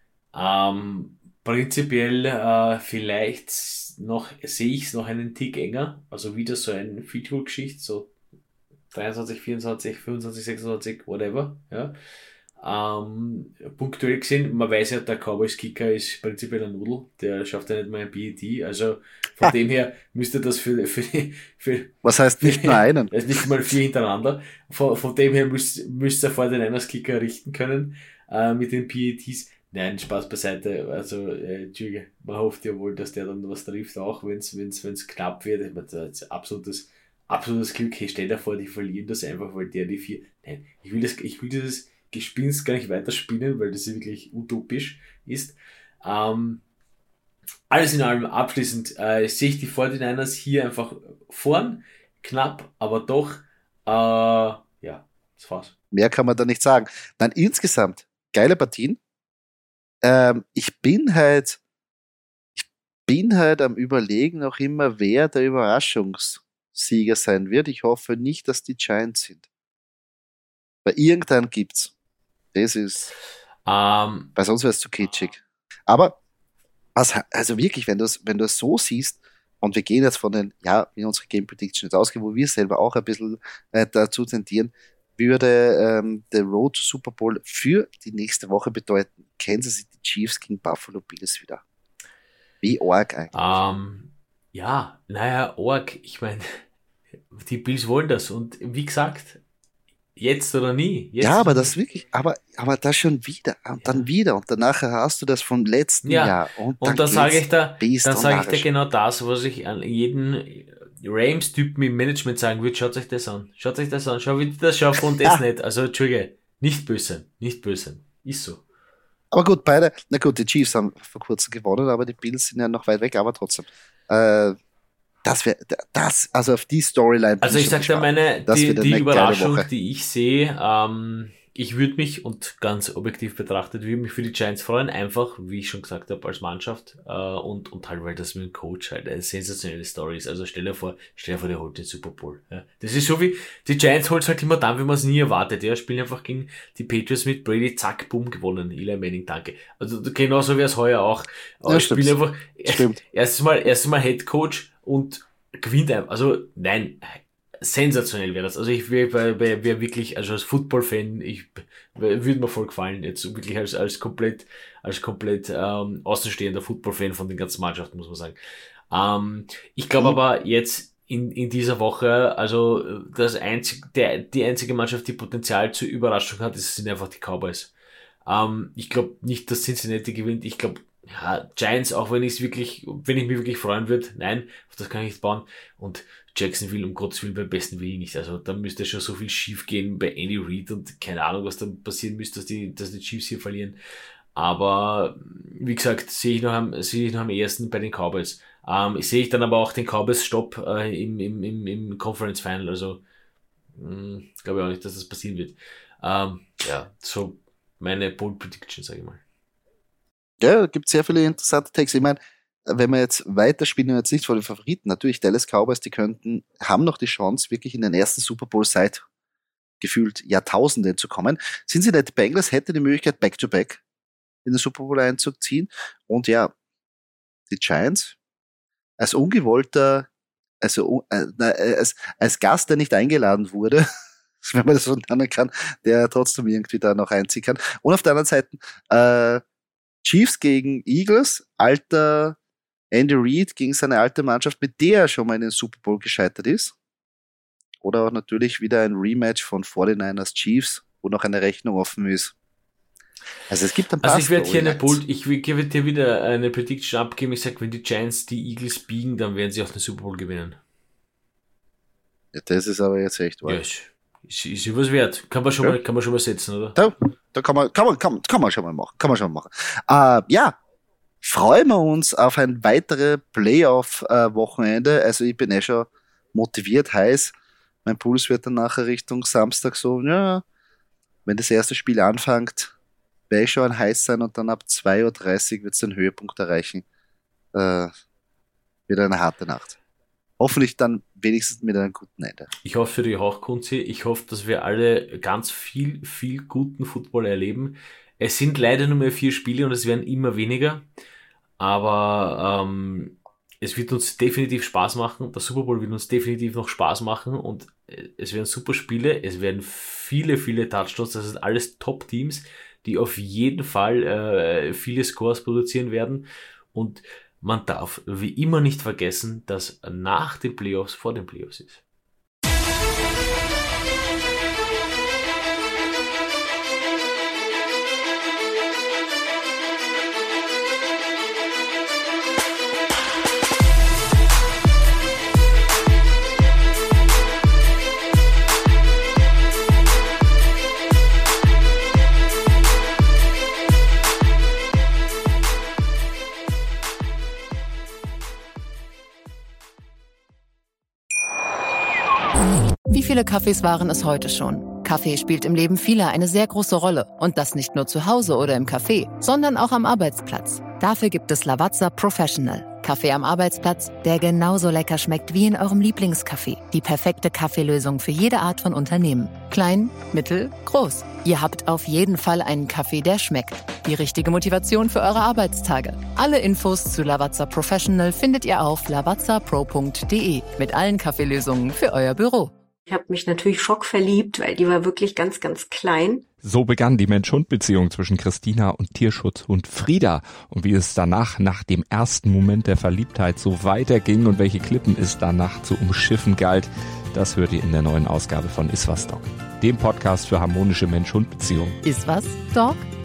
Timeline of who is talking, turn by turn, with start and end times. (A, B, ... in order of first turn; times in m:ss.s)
0:00.3-0:08.1 A
0:08.9-0:12.0 A
0:12.6-0:46.6 A
0:22.0-0:23.1 B
0:47.7-0:55.7 A
0:55.9-0:59.0 B
1:00.0-1:01.6 B
1:02.6-1:09.4 B
1:10.8-1:11.9 B
1:12.5-1:13.1 B
1:13.7-1:14.3 A
1:14.4-1:16.2 B
1:17.0-1:31.6 B
1:32.6-1:33.3 B
1:33.3-1:36.6 A
1:37.3-1:39.4 A
1:40.2-1:41.8 A
1:41.2-1:48.7 B
1:46.0-1:58.6 A
1:59.3-2:04.6 B
2:05.2-2:09.7 B
2:07.4-2:48.4 A
2:31.7-2:33.0 B
2:48.9-2:57.7 A
2:58.3-3:13.8 A
3:14.4-3:23.0 A
3:23.8-3:29.2 A
3:30.4-3:39.0 B
3:39.8-3:43.8 B
3:44.4-3:46.5 B
3:47.5-3:48.2 B
3:49.0-3:50.1 B
3:50.6-3:53.8 B
3:54.4-3:59.4 B
4:00.0-4:02.4 B
4:02.9-4:06.8 B
4:07.8-4:12.3 B
4:13.5-4:15.0 B
4:14.0-4:20.6 A
4:22.3-4:23.6 B
4:23.4-4:26.8 A
4:26.8-4:30.6 B
4:31.2-4:37.3 B
4:37.8-4:40.4 B
4:41.3-4:42.7 B
4:43.3-4:46.8 B
4:47.5-4:47.9 B
4:48.9-4:49.8 B
4:50.4-4:52.5 B
4:52.6-5:00.9 A
5:01.6-5:21.8 A
5:52.9-6:22.5 C
6:22.9-6:26.2 D
6:26.4-6:41.8 E
6:41.8-6:42.9 C